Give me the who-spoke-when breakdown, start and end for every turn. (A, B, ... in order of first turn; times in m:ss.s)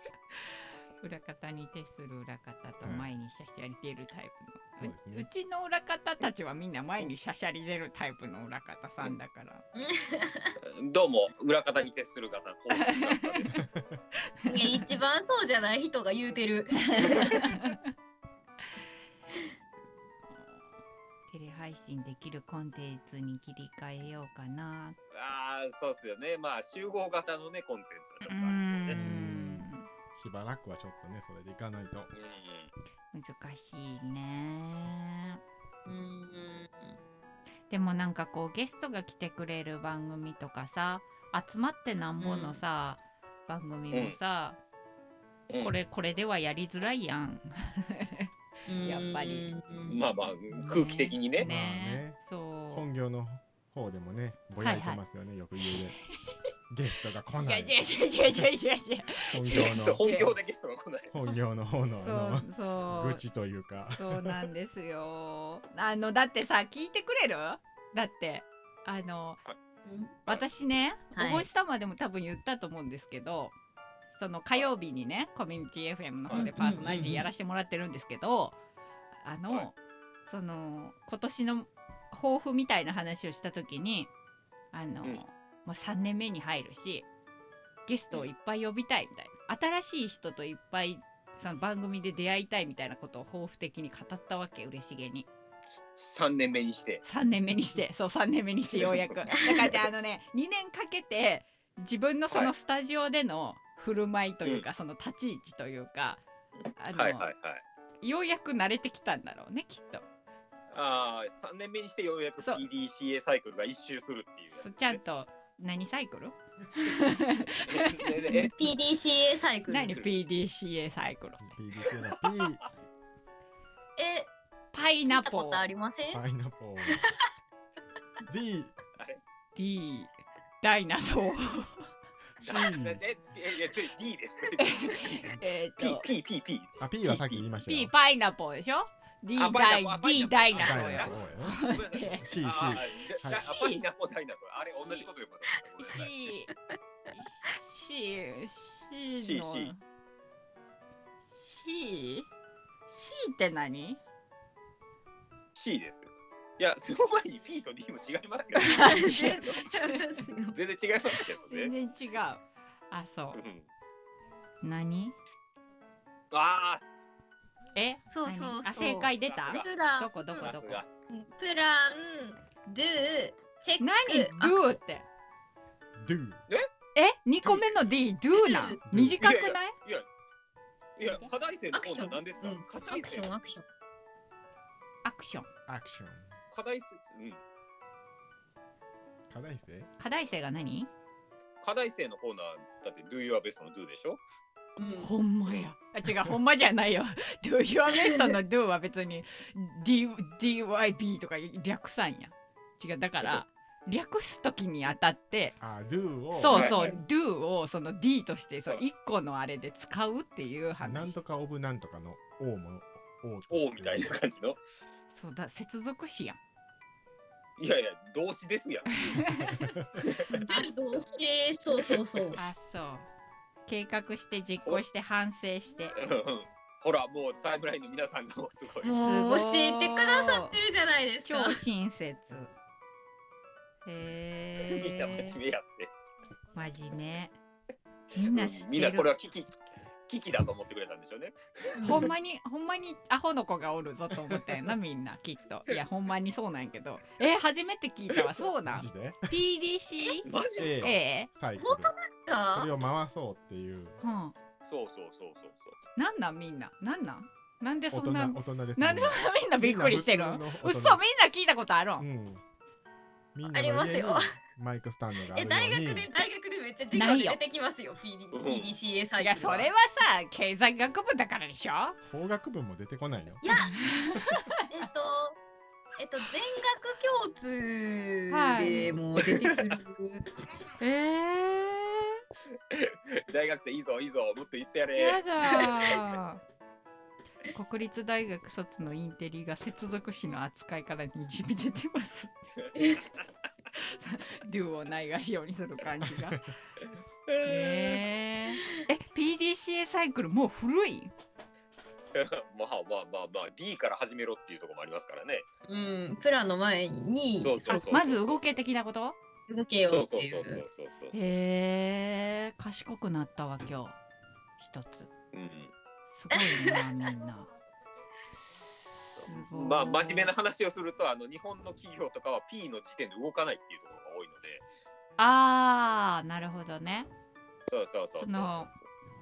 0:00.5-0:09.6 A
0:02.8-0:03.1 B
0:04.8-0:05.3 B
0:09.7-0:10.5 C
0:10.6-0:13.6 D
0:12.8-0:13.6 A
0:14.4-0:14.9 A
0:14.5-0:17.6 C
0:16.9-0:17.8 A
0:21.3-0:25.0 A
0:25.1-0:29.0 D
0:28.3-0:29.9 A
0:28.9-0:32.1 B
0:32.1-0:32.7 D
0:33.1-0:35.4 A
0:35.8-0:37.0 C
0:37.7-0:44.6 A
0:42.2-0:42.6 C
0:43.9-0:44.2 D
0:45.5-0:45.7 D
0:45.6-0:48.3 A
0:48.7-0:50.0 C
0:48.8-0:49.5 A
0:49.9-0:51.5 D
0:50.5-0:52.9 A
0:51.4-0:52.2 B
0:52.7-0:56.0 B
0:54.6-0:55.0 A
0:55.7-0:56.3 A
0:56.7-0:57.8 B
0:57.3-1:00.3 A
0:59.3-1:00.0 B
0:59.5-1:01.1 D
1:01.1-1:04.4 B
1:02.0-1:03.2 A
1:03.9-1:09.4 A
1:09.8-1:10.2 C
1:10.3-1:13.5 A
1:11.2-1:11.4 C
1:14.2-1:18.6 A
1:16.3-1:17.2 C
1:19.2-1:19.8 A
1:20.3-1:24.1 A
1:24.7-1:27.0 A
1:27.9-1:35.3 A
1:36.0-1:37.0 D
1:37.0-1:46.2 A
1:46.8-1:47.3 A
1:46.9-1:47.6 D
1:48.0-1:50.0 A
1:50.7-1:55.0 D
1:54.5-1:58.5 A
1:57.6-1:58.5 D
1:58.4-2:00.0 C
1:59.7-2:01.5 A
2:01.4-2:02.6 B
2:04.0-2:04.3 C
2:04.7-2:05.7 A
2:05.1-2:06.2 C
2:06.1-2:07.0 B
2:08.3-2:08.7 B
2:09.6-2:10.1 A
2:10.6-2:11.9 A
2:12.4-2:13.0 B
2:12.4-2:17.4 D
2:14.6-2:16.1 A
2:16.8-2:17.9 B
2:17.6-2:22.3 A
2:19.4-2:26.1 D
2:20.5-2:21.6 B
2:22.2-2:23.5 B
2:23.2-2:23.8 A
2:24.8-2:25.1 A
2:25.8-2:26.5 A
2:27.1-2:29.8 A
2:29.2-2:29.7 D
2:31.2-2:32.3 A
2:32.9-2:34.0 A
2:35.5-2:39.5 D
2:38.6-2:40.0 A
2:38.7-2:40.6 C
2:40.5-2:41.7 D
2:41.4-2:43.4 A
2:43.3-2:43.7 D
2:44.6-2:45.2 A
2:46.3-2:46.8 D
2:47.7-2:50.8 A
2:48.1-2:50.5 C
2:49.3-2:49.7 D
2:50.4-2:50.9 D
2:51.1-2:54.7 C
2:53.8-2:55.0 A
2:56.0-2:56.4 B
2:56.9-2:59.7 A
2:57.4-2:57.7 B
2:58.3-2:58.8 C
2:58.9-2:59.2 B
2:59.2-3:00.0 D
3:01.0-3:03.3 D
3:01.7-3:03.6 C
3:05.0-3:05.5 A
3:05.7-3:06.4 B
3:06.5-3:07.4 D
3:09.3-3:09.9 B
3:10.0-3:10.9 A
3:11.6-3:14.2 D
3:14.8-3:15.1 C
3:15.0-3:25.5 A
3:25.6-3:26.7 B
3:26.3-3:31.2 A
3:26.7-3:27.0 C
3:30.8-3:34.1 B
3:33.5-3:34.6 D
3:35.1-3:36.4 A
3:37.6-3:39.4 D
3:39.0-3:39.6 A
3:39.4-3:40.0 B
3:40.0-3:40.4 D
3:40.3-3:42.4 C
3:42.4-3:43.0 A
3:43.6-3:46.0 A
3:45.9-3:49.0 D
3:48.8-3:51.6 C
3:48.9-3:50.5 A
3:51.2-3:52.5 A
3:53.8-3:55.4 A
3:54.6-3:55.9 D
3:56.5-3:57.3 A
3:58.1-3:59.1 A
3:58.2-3:59.6 D
4:00.1-4:02.1 D
4:01.8-4:02.0 C
4:01.8-4:10.2 A
4:08.6-4:09.3 B
4:10.2-4:11.0 D
4:10.6-4:11.9 B
4:10.8-4:11.3 A
4:11.6-4:12.7 C
4:12.5-4:14.0 B
4:14.0-4:14.3 A
4:14.7-4:15.8 D
4:16.0-4:22.0 A
4:17.9-4:21.0 B
4:22.0-4:22.4 B
4:23.3-4:26.1 B
4:23.5-4:24.3 C
4:25.3-4:29.7 C
4:26.9-4:27.4 A
4:28.3-4:28.7 D
4:29.2-4:32.0 A
4:32.0-4:33.4 B
4:33.4-4:33.8 C
4:33.5-4:34.6 A
4:34.7-4:35.4 C
4:36.0-4:40.3 C
4:38.3-4:38.9 A
4:39.2-4:39.6 D
4:40.8-4:42.2 A
4:42.7-4:46.0 D
4:44.9-4:46.4 A
4:47.5-4:52.3 A
4:52.6-4:53.2 D
4:52.8-4:53.0 C
4:53.8-4:56.4 A
4:56.8-4:58.0 D
4:57.4-5:01.1 A
5:02.1-5:05.4 D
5:05.7-5:07.8 C
5:07.4-5:08.4 D
5:07.7-5:09.2 A
5:09.5-5:10.6 C
5:09.9-5:11.1 D
5:11.1-5:14.0 A
5:14.6-5:15.1 A
5:15.3-5:15.7 D
5:16.1-5:17.5 A
5:16.3-5:16.8 C
5:18.7-5:20.3 A
5:19.2-5:24.6 D
5:25.2-5:27.1 A
5:27.7-5:28.6 D
5:28.2-5:28.7 A